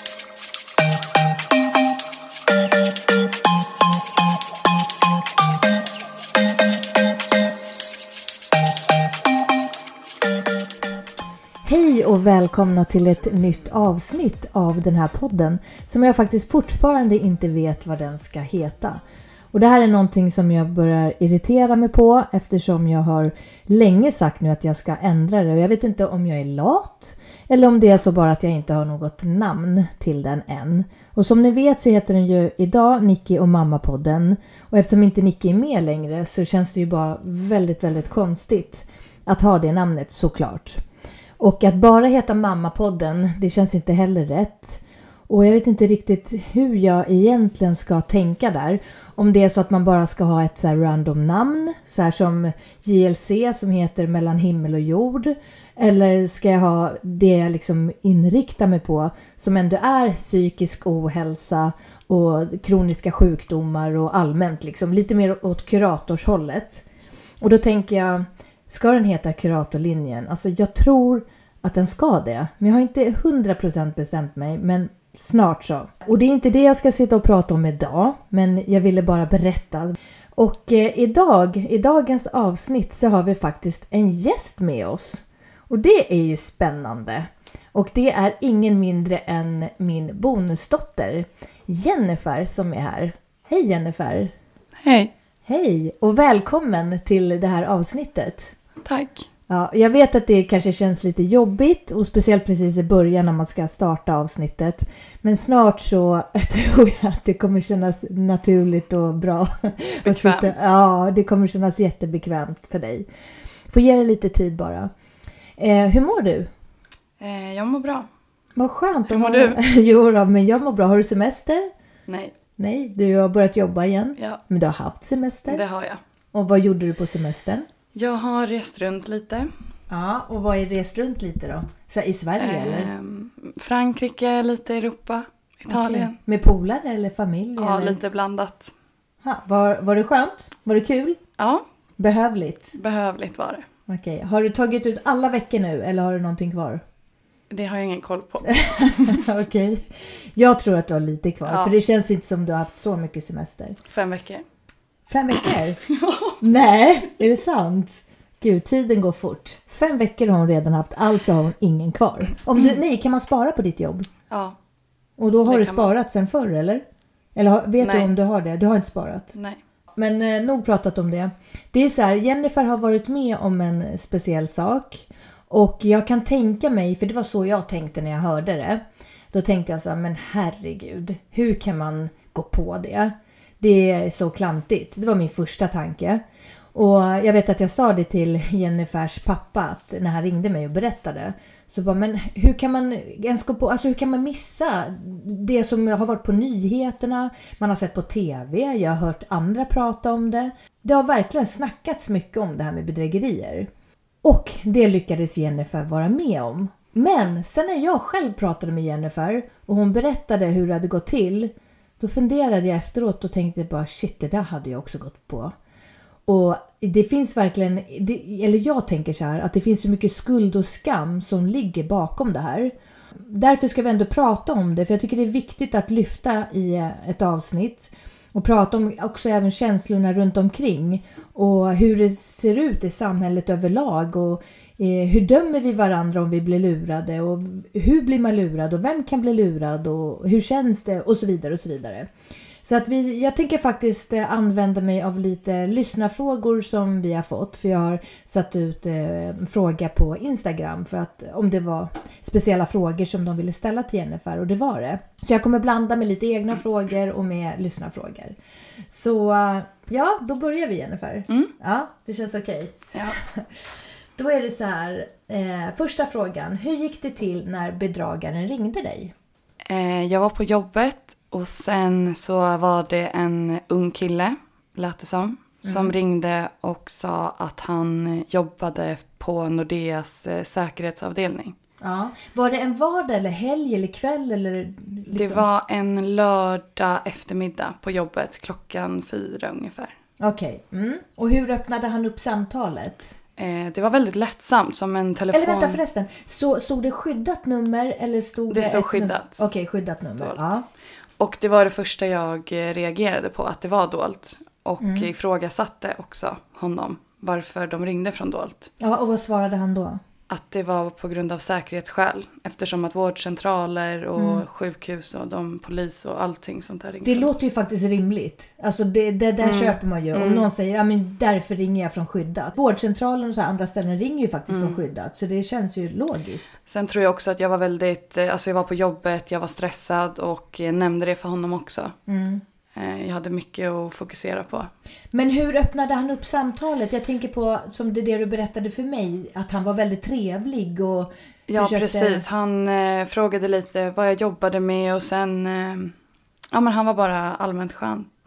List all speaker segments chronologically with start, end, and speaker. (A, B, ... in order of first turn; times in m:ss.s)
0:11.6-0:19.0 A
0:19.5-0:40.8 A
0:41.4-1:06.8 A
1:07.4-1:34.3 A
1:34.8-1:35.1 B
1:35.5-1:38.5 A
1:38.8-1:39.3 B
1:39.5-1:53.1 A
1:50.0-1:50.5 B
1:53.7-1:54.9 A
1:55.6-1:56.5 A
1:57.2-1:58.1 B
1:58.6-2:01.7 A
1:59.1-1:59.6 B
2:02.1-2:02.3 B
2:02.6-2:05.6 A
2:05.5-2:06.0 B
2:06.3-2:07.7 A
2:08.0-2:09.5 B
2:09.9-2:12.9 A
2:12.4-2:16.2 B
2:15.7-2:18.0 A
2:17.6-2:18.7 B
2:19.2-2:21.2 A
2:21.4-2:21.6 B
2:22.0-2:22.7 A
2:22.8-2:23.6 B
2:23.9-2:26.8 A
2:27.5-2:29.1 B
2:28.5-2:33.8 A
2:31.5-2:31.7 B
2:33.9-2:34.4 B
2:35.1-2:35.8 A
2:35.9-2:36.4 B
2:36.4-2:44.1 A
2:44.3-2:44.6 B
2:45.2-2:46.8 A
2:45.5-2:45.9 B
2:47.4-2:49.3 A
2:47.8-2:48.1 B
2:50.0-3:06.2 A
3:06.7-3:23.7 A
3:24.2-3:35.5 A
3:36.3-4:02.1 A
4:02.6-4:18.4 A
4:18.9-4:23.6 A
4:24.2-4:29.1 A
4:29.7-4:41.6 B
4:35.6-4:36.0 A
4:41.8-4:45.4 A
4:45.1-4:49.9 B
4:50.2-4:53.1 A
4:53.4-4:55.8 B
4:55.3-5:00.6 A
4:58.5-4:59.4 B
5:01.2-5:08.7 B
5:04.8-5:05.1 A
5:08.8-5:10.0 A
5:10.3-5:17.3 B
5:14.2-5:14.4 A
5:17.0-5:26.5 A
5:19.4-5:20.5 B
5:24.5-5:24.8 B
5:26.7-5:32.0 B
5:32.1-5:32.4 A
5:32.8-5:34.7 B
5:35.1-5:42.2 A
5:41.5-5:45.9 B
5:46.5-5:48.1 B